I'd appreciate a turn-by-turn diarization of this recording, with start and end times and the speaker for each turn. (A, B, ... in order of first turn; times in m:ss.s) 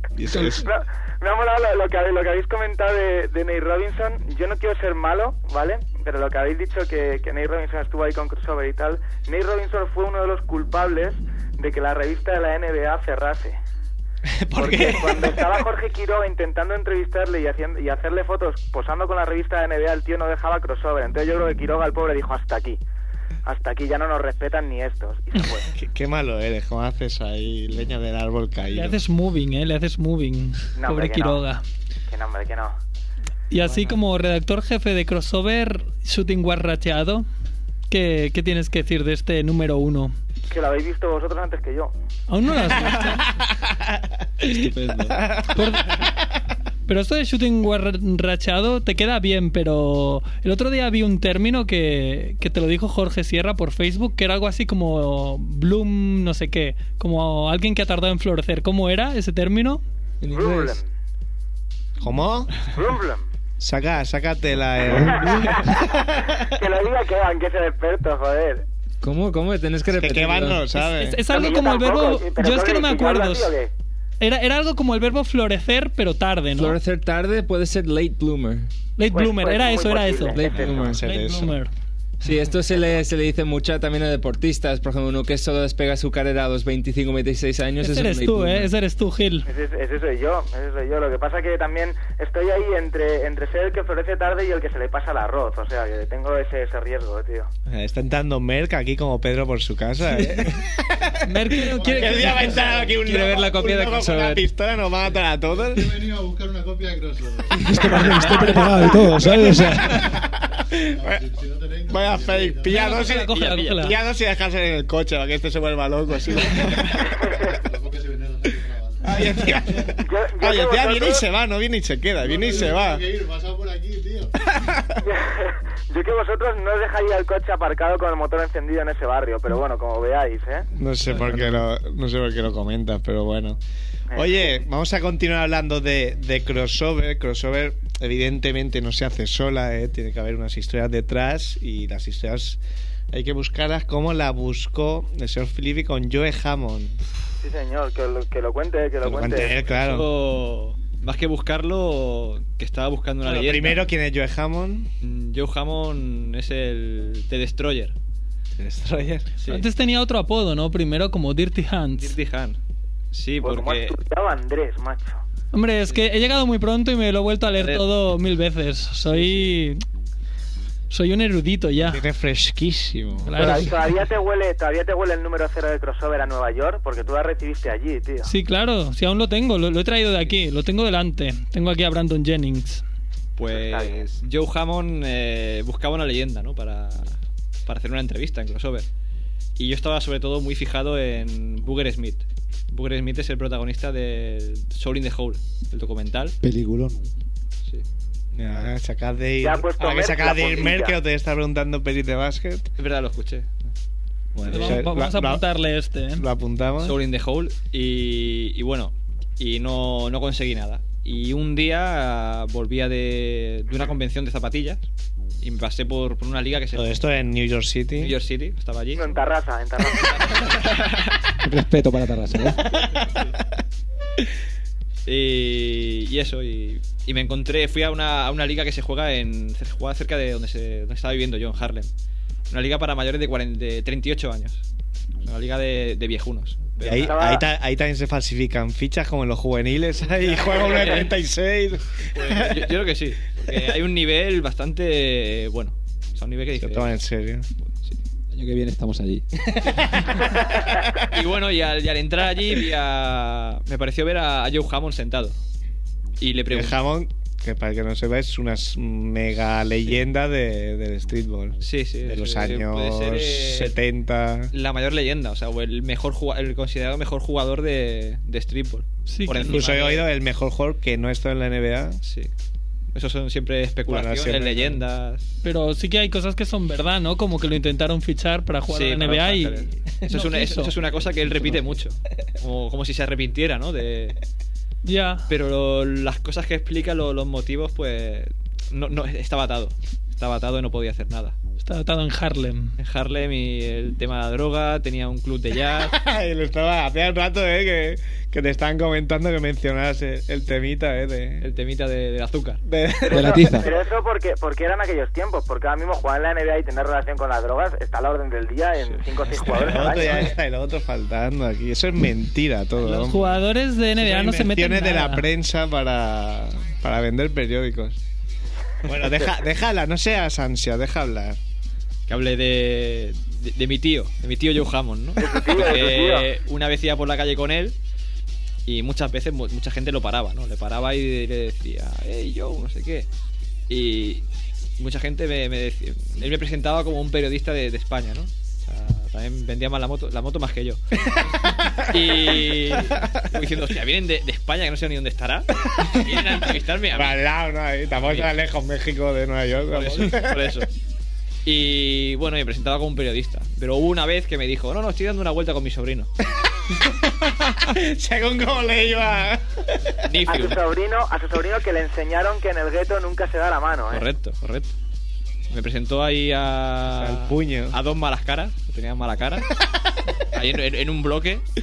0:00.2-0:00.7 A
0:00.3-0:00.6 B
0:00.5-0:13.6 C
0:14.3-0:15.6 A
0:14.6-0:22.8 C
0:23.4-0:25.7 C
0:25.7-0:29.0 A
0:28.6-0:31.6 D
0:30.8-0:31.4 C
0:32.1-0:32.8 C
0:33.5-0:37.3 D
0:37.9-0:40.2 D
0:40.5-0:41.9 C
0:42.3-0:43.3 D
0:44.4-0:46.0 A
0:44.4-0:45.2 E
0:45.5-0:46.0 D
0:46.9-0:59.8 D
1:00.2-1:00.8 F
1:00.3-1:00.9 C
1:02.0-1:02.7 A
1:02.7-1:03.2 C
1:03.6-1:06.4 A
1:05.1-1:05.8 C
1:06.5-1:08.7 C
1:09.0-1:10.7 F
1:09.9-1:11.2 A
1:10.7-1:13.5 D
1:11.3-1:13.7 C
1:14.2-1:16.8 D
1:16.5-1:18.7 F
1:19.0-1:21.7 D
1:19.1-1:20.7 C
1:20.3-1:21.0 F
1:20.5-1:21.6 A
1:22.2-1:28.7 F
1:27.8-1:29.5 D
1:29.5-1:37.5 C
1:37.7-1:46.0 A
1:41.2-1:42.7 D
1:41.6-1:42.9 G
1:42.9-1:44.5 F
1:45.5-1:47.7 G
1:47.6-1:50.2 E
1:48.2-1:48.8 A
1:49.6-1:50.0 A
1:49.6-1:50.2 G
1:50.7-1:51.2 A
1:50.9-1:52.8 G
1:51.9-1:57.2 A
1:52.7-1:54.0 D
1:53.3-1:53.8 H
1:56.3-1:56.8 G
1:57.1-1:57.5 C
1:57.3-1:59.9 G
1:59.0-2:03.0 A
2:00.0-2:01.2 C
2:02.2-2:04.3 G
2:05.0-2:10.7 C
2:10.8-2:13.6 A
2:14.1-2:14.6 C
2:14.1-2:22.6 A
2:23.1-2:27.0 A
2:27.4-2:29.6 C
2:29.0-2:30.1 A
2:29.4-2:33.9 H
2:33.2-2:34.9 A
2:35.0-2:38.0 H
2:38.6-2:39.3 A
2:39.5-2:42.2 D
2:42.0-2:42.6 H
2:43.1-2:44.0 H
2:43.4-2:45.2 C
2:45.5-2:49.8 D
2:47.6-2:47.8 H
2:49.1-2:49.5 H
2:50.9-2:52.0 D
2:51.8-2:53.6 A
2:53.2-2:53.8 D
2:53.4-2:58.3 C
2:58.2-3:02.8 D
3:03.4-3:08.9 H
3:03.5-3:04.0 C
3:09.6-3:16.4 H
3:16.4-3:17.0 E
3:18.4-3:22.7 A
3:19.4-3:21.0 C
3:22.8-3:23.7 H
3:24.4-3:25.4 A
3:24.4-3:26.3 D
3:26.1-3:27.0 A
3:26.8-3:34.8 H
3:35.4-3:37.0 H
3:36.8-3:38.1 A
3:38.0-3:39.1 H
3:39.0-3:40.5 C
3:39.9-3:41.2 H
3:41.4-3:42.6 B
3:45.1-3:51.9 H
3:52.5-3:54.6 H
3:55.2-3:57.2 H
3:56.8-4:02.6 A
3:57.0-3:57.5 C
4:00.0-4:01.2 H
4:02.1-4:07.0 H
4:06.6-4:07.5 A
4:07.6-4:08.0 H
4:08.3-4:09.2 B
4:09.6-4:11.1 A
4:11.0-4:15.4 H
4:16.2-4:16.8 H
4:16.5-4:24.5 A
4:21.6-4:23.8 H
4:24.5-4:30.1 H
4:29.1-4:29.6 D
4:29.4-4:32.0 A
4:32.0-4:32.3 H
4:32.9-4:35.2 H
4:33.9-4:34.8 A
4:35.4-4:40.7 D
4:38.7-4:44.2 H
4:44.8-4:45.3 D
4:45.3-4:51.4 H
4:51.6-4:52.7 D
4:52.8-4:56.0 H
4:55.9-5:01.4 A
5:01.4-5:02.6 H
5:02.6-5:03.8 A
5:03.1-5:03.7 B
5:03.1-5:10.2 C
5:09.0-5:10.3 H
5:09.5-5:13.4 A
5:12.8-5:15.3 D
5:14.0-5:18.0 A
5:18.8-5:21.4 A
5:22.1-5:27.8 H
5:25.2-5:26.3 C
5:28.7-5:33.1 H
5:33.7-5:34.2 H
5:34.8-5:40.8 H
5:41.1-5:43.1 A
5:41.8-5:47.2 H
5:45.8-5:50.6 A
5:48.0-5:48.4 H
5:49.7-5:50.7 H
5:51.4-5:56.1 H
5:56.7-5:59.8 A
6:00.0-6:00.6 H
6:00.2-6:04.0 C
6:03.9-6:04.7 H
6:05.5-6:09.5 H
6:06.9-6:07.8 A
6:10.3-6:11.4 H